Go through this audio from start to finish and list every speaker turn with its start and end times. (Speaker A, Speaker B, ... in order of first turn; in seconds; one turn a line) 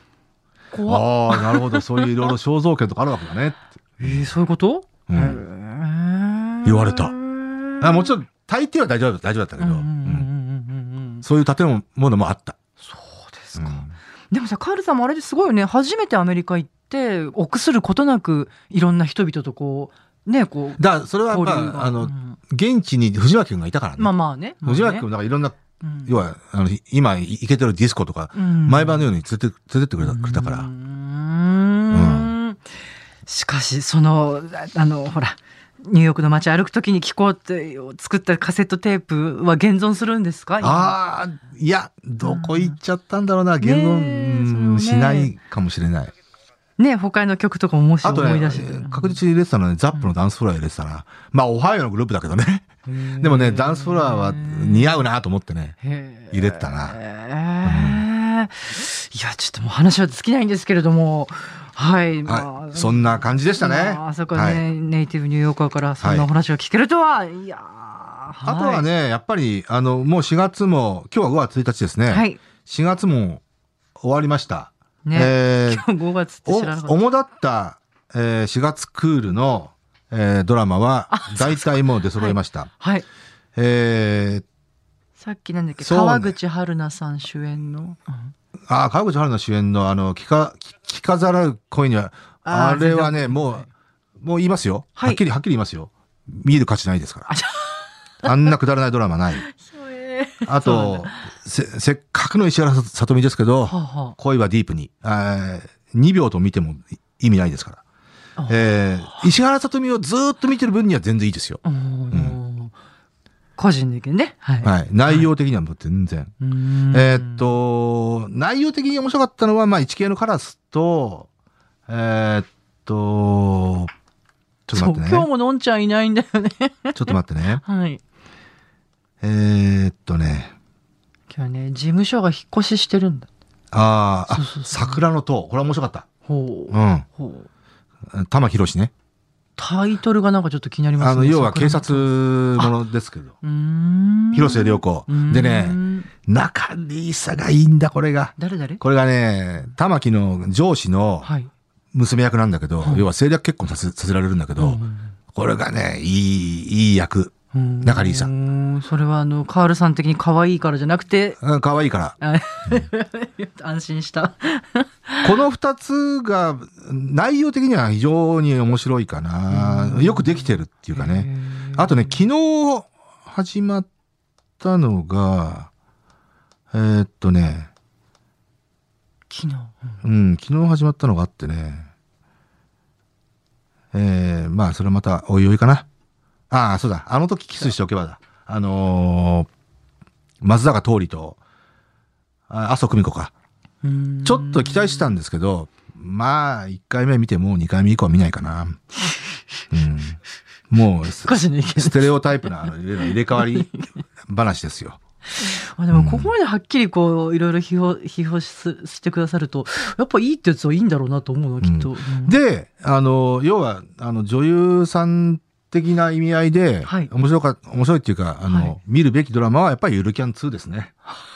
Speaker A: 0.7-2.3
Speaker B: 0.9-4.3
Speaker A: 4.0-8.2
Speaker B: 5.1-5.4
Speaker B: 6.6-7.1
Speaker B: 7.8-10.3
Speaker A: 9.6-11.2
Speaker B: 11.2-12.6
Speaker A: 12.8-22.4
Speaker B: 13.6-14.0
Speaker B: 20.8-30.7
Speaker A: 24.0-25.1
Speaker A: 25.8-26.1
Speaker A: 28.4-29.1
Speaker A: 30.0-32.6
Speaker B: 31.9-32.3
Speaker A: 33.3-41.0
Speaker B: 40.6-46.1
Speaker A: 42.2-42.8
Speaker A: 43.6-45.3
Speaker A: 46.8-49.2
Speaker B: 48.0-52.7
Speaker A: 52.9-55.0
Speaker B: 53.2-55.8
Speaker A: 55.8-68.9
Speaker B: 56.3-57.0
Speaker B: 57.6-58.0
Speaker B: 62.3-64.6
Speaker B: 66.0-66.3
Speaker B: 68.4-73.4
Speaker A: 72.1-72.4
Speaker B: 74.0-75.9
Speaker A: 75.0-77.0
Speaker B: 76.5-82.7
Speaker A: 81.1-83.1
Speaker B: 83.6-84.4
Speaker A: 85.2-88.3
Speaker B: 85.8-86.4
Speaker B: 88.7-93.7
Speaker A: 92.5-93.7
Speaker B: 94.2-97.3
Speaker A: 97.3-97.9
Speaker B: 98.2-99.5
Speaker A: 99.4-101.2
Speaker B: 100.5-107.8
Speaker A: 103.7-104.2
Speaker A: 108.4-109.3
Speaker B: 108.5-111.6
Speaker A: 111.6-112.7
Speaker A: 113.6-115.3
Speaker B: 114.6-116.3
Speaker A: 116.4-117.6
Speaker B: 116.9-121.3
Speaker B: 121.9-123.9
Speaker B: 124.7-125.3
Speaker A: 124.7-128.0
Speaker B: 127.0-127.6
Speaker B: 129.2-130.5
Speaker A: 131.3-133.3
Speaker B: 133.7-136.1
Speaker A: 134.3-135.0
Speaker A: 136.3-137.5
Speaker B: 136.7-137.1
Speaker B: 138.1-138.9
Speaker A: 139.6-142.7
Speaker B: 141.0-143.3
Speaker A: 143.4-146.1
Speaker B: 144.3-151.3
Speaker A: 148.4-148.8
Speaker A: 151.2-151.5
Speaker B: 151.9-154.8
Speaker A: 152.8-153.1
Speaker A: 154.6-155.2
Speaker B: 155.3-158.3
Speaker A: 157.5-161.4
Speaker B: 161.4-162.2
Speaker A: 162.2-165.3
Speaker B: 165.2-173.9
Speaker A: 169.5-172.3
Speaker B: 174.6-175.7
Speaker B: 176.7-177.7
Speaker A: 179.3-180.0
Speaker B: 180.0-181.9
Speaker B: 183.9-185.9
Speaker B: 186.5-189.5
Speaker B: 190.4-191.4
Speaker B: 192.5-193.3
Speaker A: 193.8-195.1
Speaker B: 194.2-198.8
Speaker B: 199.7-200.2
Speaker B: 200.7-203.7
Speaker A: 201.2-203.9
Speaker B: 204.3-205.0
Speaker A: 205.3-212.4
Speaker B: 205.9-206.3
Speaker B: 211.6-220.9
Speaker A: 218.5-218.8